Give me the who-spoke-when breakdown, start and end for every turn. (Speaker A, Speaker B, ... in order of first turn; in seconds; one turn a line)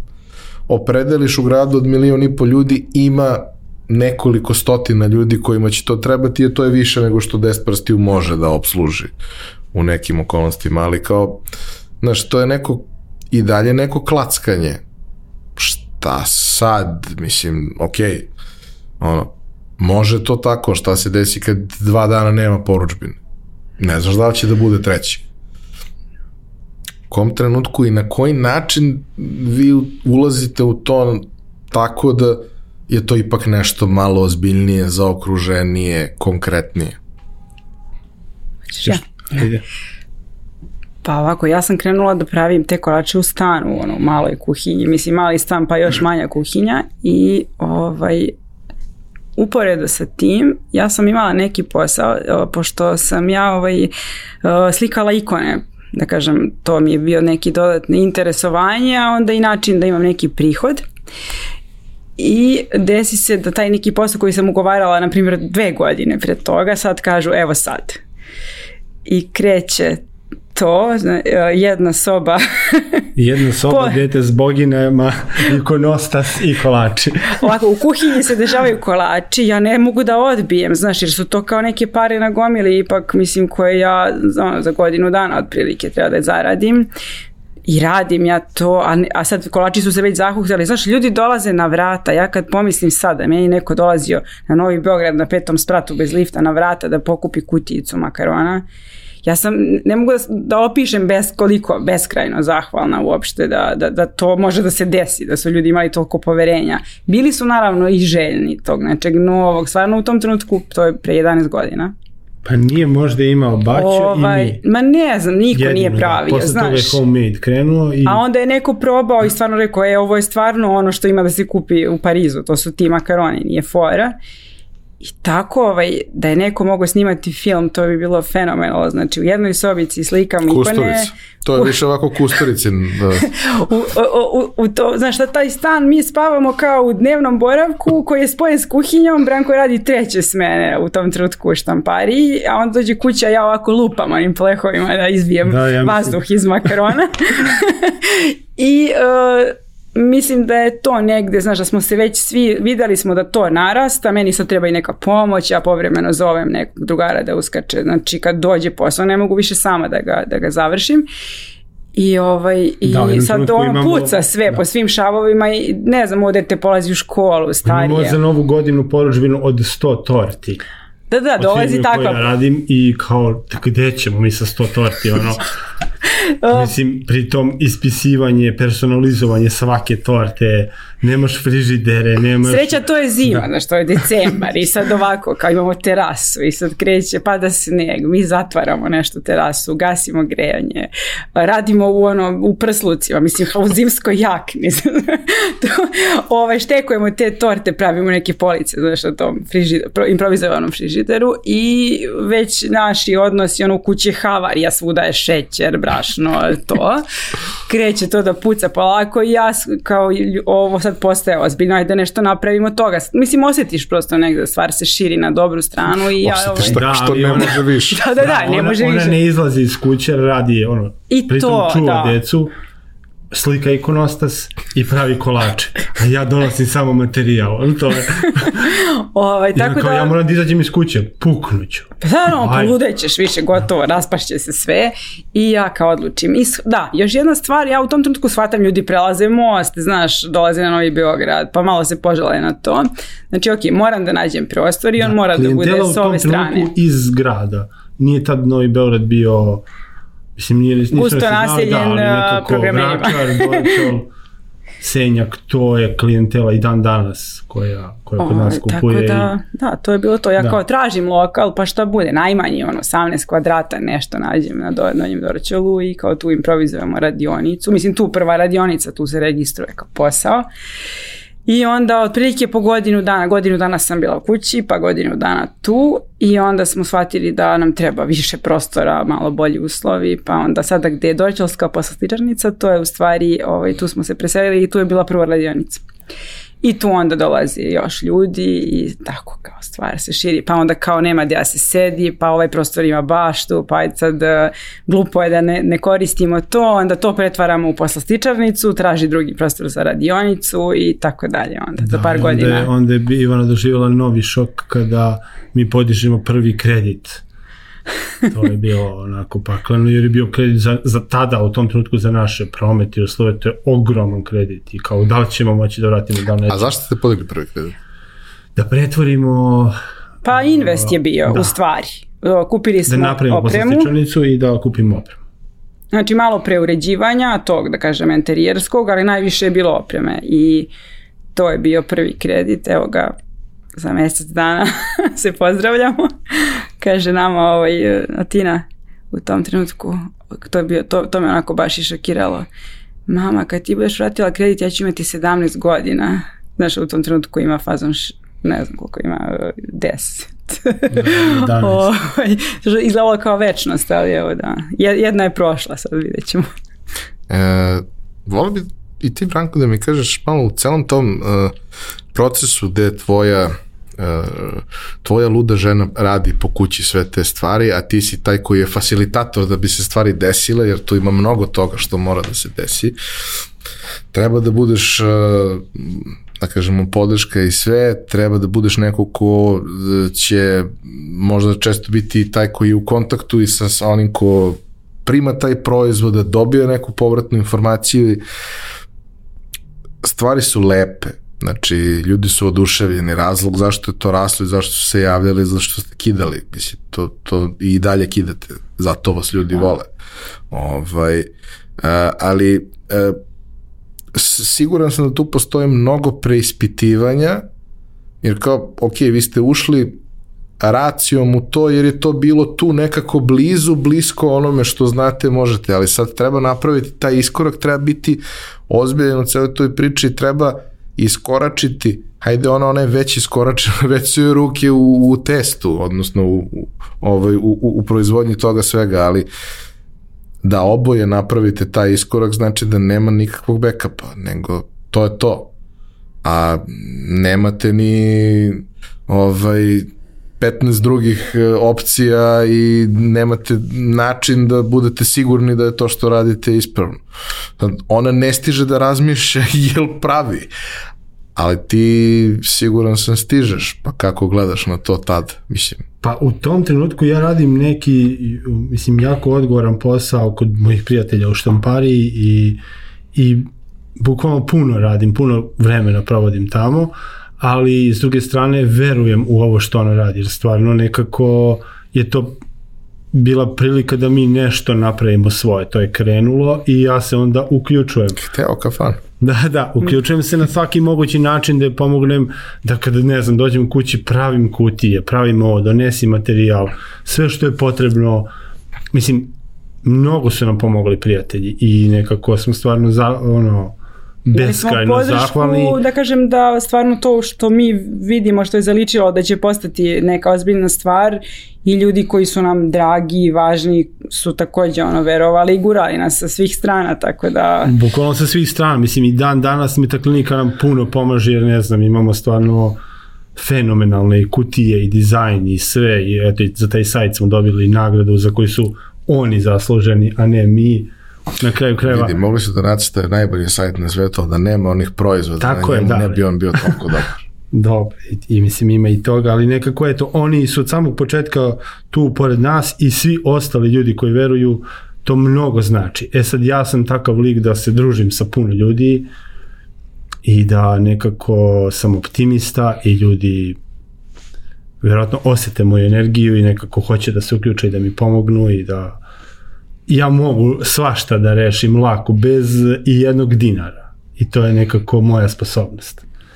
Speaker A: 0.7-9.1
Speaker A: 9.7-11.4
Speaker A: 12.0-14.8
Speaker A: 15.6-18.3
Speaker A: 19.0-23.2
Speaker A: 23.8-25.2
Speaker A: 27.1-37.0
Speaker B: 38.7-39.0
Speaker C: 38.8-39.6
Speaker B: 41.0-48.4
Speaker B: 49.4-53.9
Speaker B: 54.4-60.9
Speaker B: 62.2-68.0
Speaker B: 69.1-70.0
Speaker B: 70.5-73.1
Speaker C: 73.2-77.5
Speaker B: 73.7-74.0
Speaker B: 77.4-86.9
Speaker B: 87.7-98.7
Speaker B: 99.2-111.9
Speaker C: 112.5-114.6
Speaker B: 113.8-117.0
Speaker C: 115.5-118.2
Speaker B: 118.1-124.2
Speaker B: 125.0-131.7
Speaker A: 130.5-133.3
Speaker B: 133.3-161.1
Speaker C: 145.4-146.2
Speaker B: 161.9-168.2
Speaker C: 162.8-164.6
Speaker C: 167.6-170.6
Speaker B: 171.1-172.3
Speaker C: 171.4-175.5
Speaker B: 176.4-176.7
Speaker C: 176.5-183.5
Speaker B: 182.5-207.0
Speaker B: 207.7-216.8
Speaker A: 216.2-218.0
Speaker C: 216.6-217.6
Speaker B: 217.9-219.2
Speaker C: 218.2-222.5
Speaker B: 221.1-222.2
Speaker C: 223.3-228.7
Speaker B: 228.4-230.2
Speaker C: 229.6-232.8
Speaker B: 232.0-246.7
Speaker C: 245.0-249.6
Speaker C: 250.4-254.1
Speaker B: 250.9-253.9
Speaker C: 254.8-259.3
Speaker B: 258.2-270.4
Speaker B: 271.5-285.8
Speaker B: 286.6-302.7
Speaker C: 301.8-307.2
Speaker C: 308.3-316.8
Speaker A: 316.5-317.8
Speaker C: 318.6-319.8
Speaker B: 320.2-323.9
Speaker C: 320.3-321.5
Speaker C: 322.9-325.2
Speaker B: 325.9-330.7
Speaker B: 331.4-333.1
Speaker B: 333.8-342.5
Speaker B: 343.1-356.5
Speaker C: 350.9-351.8
Speaker A: 357.3-361.6
Speaker A: 362.1-373.0
Speaker A: 374.1-388.2
Speaker A: 390.0-399.9
Speaker A: 400.5-403.2
Speaker A: 404.1-407.4
Speaker A: 408.2-410.0
Speaker A: 410.6-429.3
Speaker A: 430.4-435.5
Speaker A: 436.2-447.0
Speaker A: 447.6-450.5
Speaker A: 451.4-455.9
Speaker C: 456.0-462.6
Speaker C: 463.1-472.4
Speaker C: 473.1-478.2
Speaker A: 478.2-479.0
Speaker C: 479.2-488.3
Speaker C: 488.9-489.3
Speaker C: 489.8-495.8
Speaker B: 494.3-507.7
Speaker C: 507.6-512.8
Speaker C: 513.4-522.1
Speaker A: 521.9-527.2
Speaker C: 525.4-526.8
Speaker C: 527.5-539.1
Speaker C: 540.2-543.6
Speaker C: 544.8-549.0
Speaker C: 549.9-556.0